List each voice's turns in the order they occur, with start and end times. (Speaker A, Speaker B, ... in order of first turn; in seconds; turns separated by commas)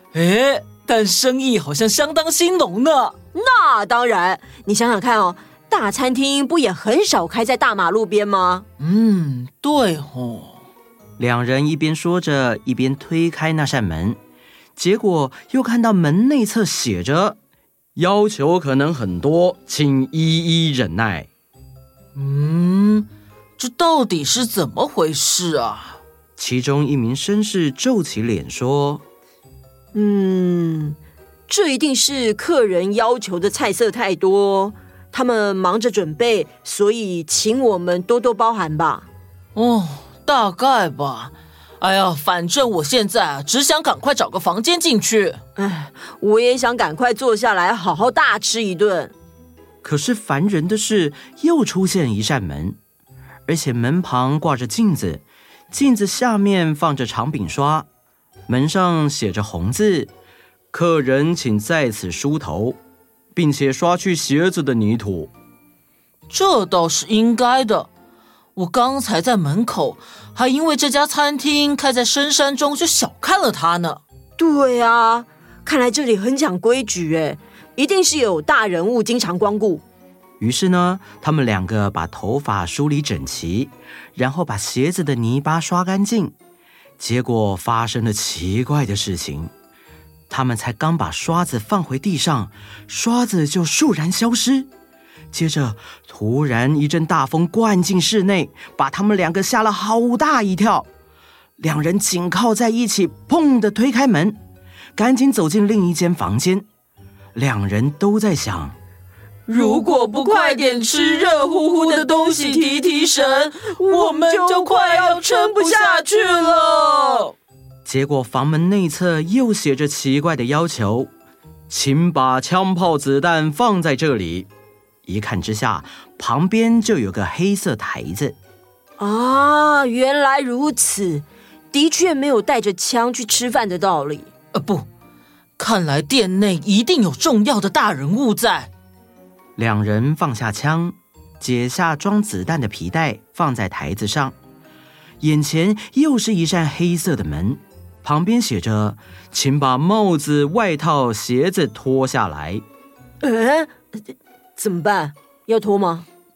Speaker A: 0.1-3.1, Speaker B: 3.3-8.7, Speaker A: 8.8-10.6, Speaker C: 11.2-14.2, Speaker C: 14.8-17.4, Speaker C: 18.0-21.3, Speaker A: 22.2-23.1, Speaker A: 23.6-26.0, Speaker C: 26.4-29.0, Speaker B: 29.9-31.0, Speaker B: 31.5-39.1, Speaker A: 39.5-45.4, Speaker B: 45.6-49.1, Speaker C: 49.8-52.8, Speaker C: 53.5-57.9, Speaker C: 58.5-60.1, Speaker C: 60.7-62.8, Speaker C: 63.4-65.3, Speaker A: 66.3-67.9, Speaker A: 68.6-74.0, Speaker B: 74.4-79.8, Speaker C: 80.4-86.3, Speaker C: 87.0-89.5, Speaker C: 90.3-94.7, Speaker C: 95.3-100.9, Speaker C: 101.6-104.4, Speaker C: 105.0-106.7, Speaker C: 107.3-108.8, Speaker B: 109.5-117.2, Speaker A: 109.5-117.3, Speaker C: 117.8-121.1, Speaker C: 121.7-124.5, Speaker C: 125.1-128.4, Speaker B: 129.0-134.3, Speaker A: 134.6-134.8, Speaker A: 135.6-138.7, Speaker C: 139.6-144.3, Speaker C: 145.2-152.6, Speaker B: 153.2-153.7, Speaker B: 154.6-156.1